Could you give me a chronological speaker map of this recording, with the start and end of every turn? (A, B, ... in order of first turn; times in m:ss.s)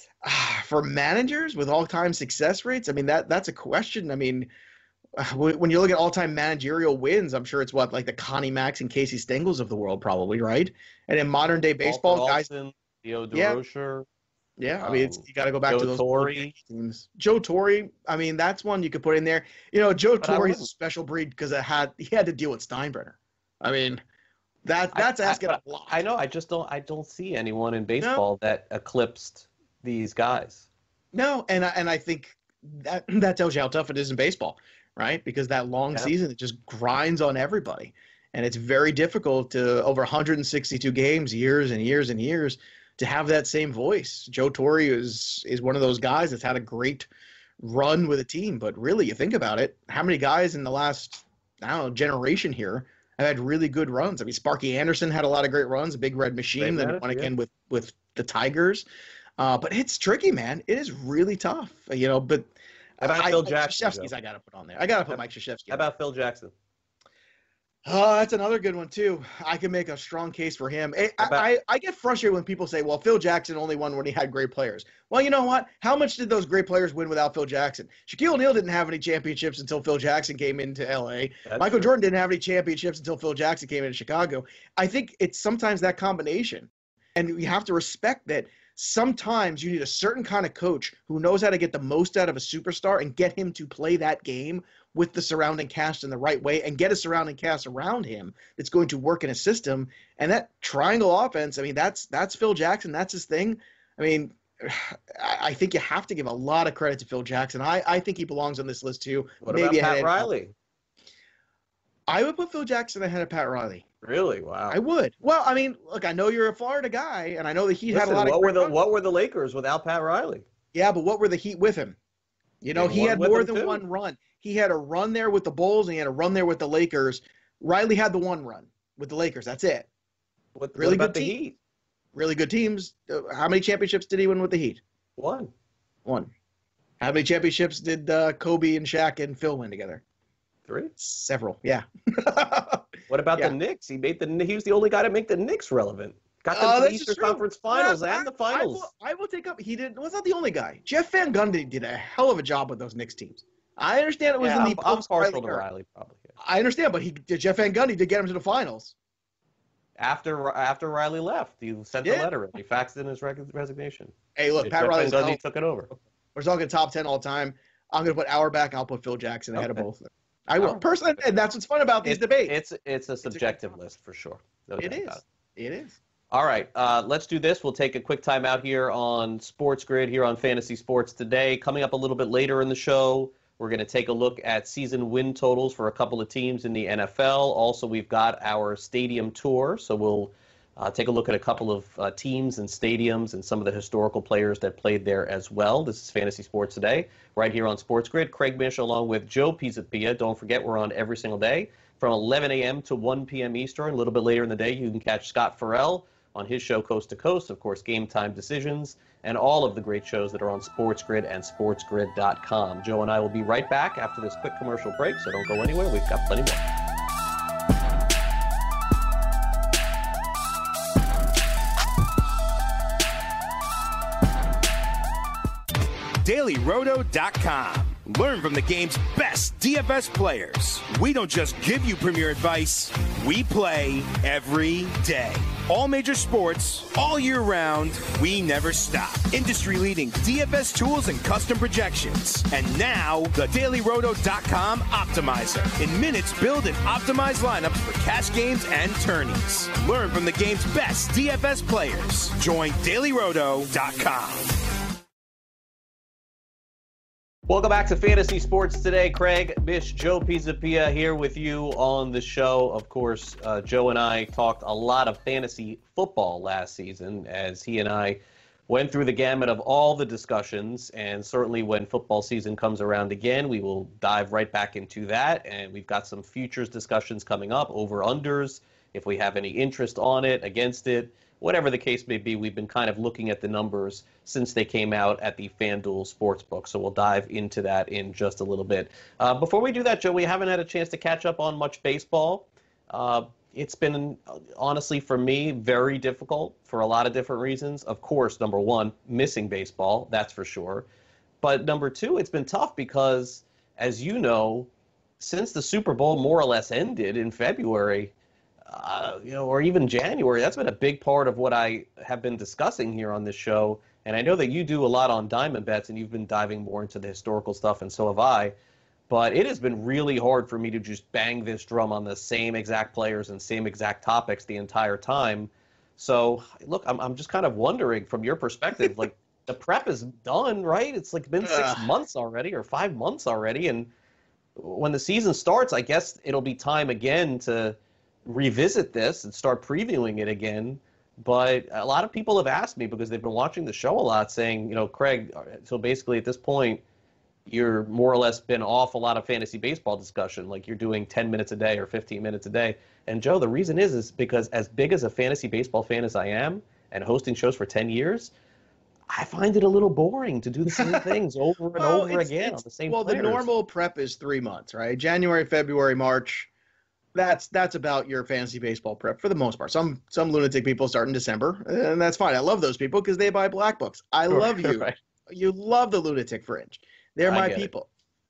0:00.2-0:04.5 A
0:05.2-0:12.4 A
0:11.8-0:14.0 B
0:13.3-0:13.6 A
0:14.6-0:24.0 A
0:14.8-0:16.5 B
0:20.2-0:20.7 B
0:24.6-0:26.0 A
0:24.9-0:30.7 B
0:31.1-0:47.1 A
0:47.6-0:58.8 A
0:56.6-0:57.3 B
0:59.4-1:02.5 A
1:03.0-1:04.1 B
1:03.0-1:05.9 A
1:05.7-1:06.5 B
1:07.8-1:50.3 A
1:11.2-1:11.5 B
1:21.4-1:21.9 B
1:49.4-1:50.5 B
1:52.1-1:53.8 A
1:54.0-1:54.8 B
1:54.7-1:58.8 A
1:57.9-2:00.4 B
2:00.7-2:02.0 A
2:02.6-2:09.9 A
2:02.7-2:03.8 B
2:10.5-2:11.5 B
2:10.8-2:11.4 A
2:12.1-2:14.8 A
2:15.2-2:15.5 B
2:17.0-2:20.0 A
2:20.7-2:20.9 B
2:21.0-2:23.5 A
2:23.1-2:28.9 B
2:26.5-2:35.6 A
2:34.4-2:36.3 B
2:36.4-2:38.9 A
2:40.0-2:45.9 B
2:42.0-2:42.3 A
2:44.4-2:45.4 A
2:45.9-2:52.5 A
2:49.5-2:49.9 B
2:52.0-2:55.2 B
2:53.2-2:53.5 A
2:54.8-2:56.0 A
2:56.3-3:36.6 B
3:46.2-4:14.5 C
4:17.5-5:00.9 B
5:01.4-5:08.1 B
5:08.7-5:18.5 B
5:19.1-5:33.9 B
5:31.4-5:31.9 A
5:34.6-5:46.8 B
5:47.5-5:58.3 B
5:59.1-6:03.5 B
6:00.8-6:01.1 A
6:01.8-6:06.5 A
6:07.1-6:17.9 A
6:14.3-6:15.0 B
6:17.2-6:17.7 B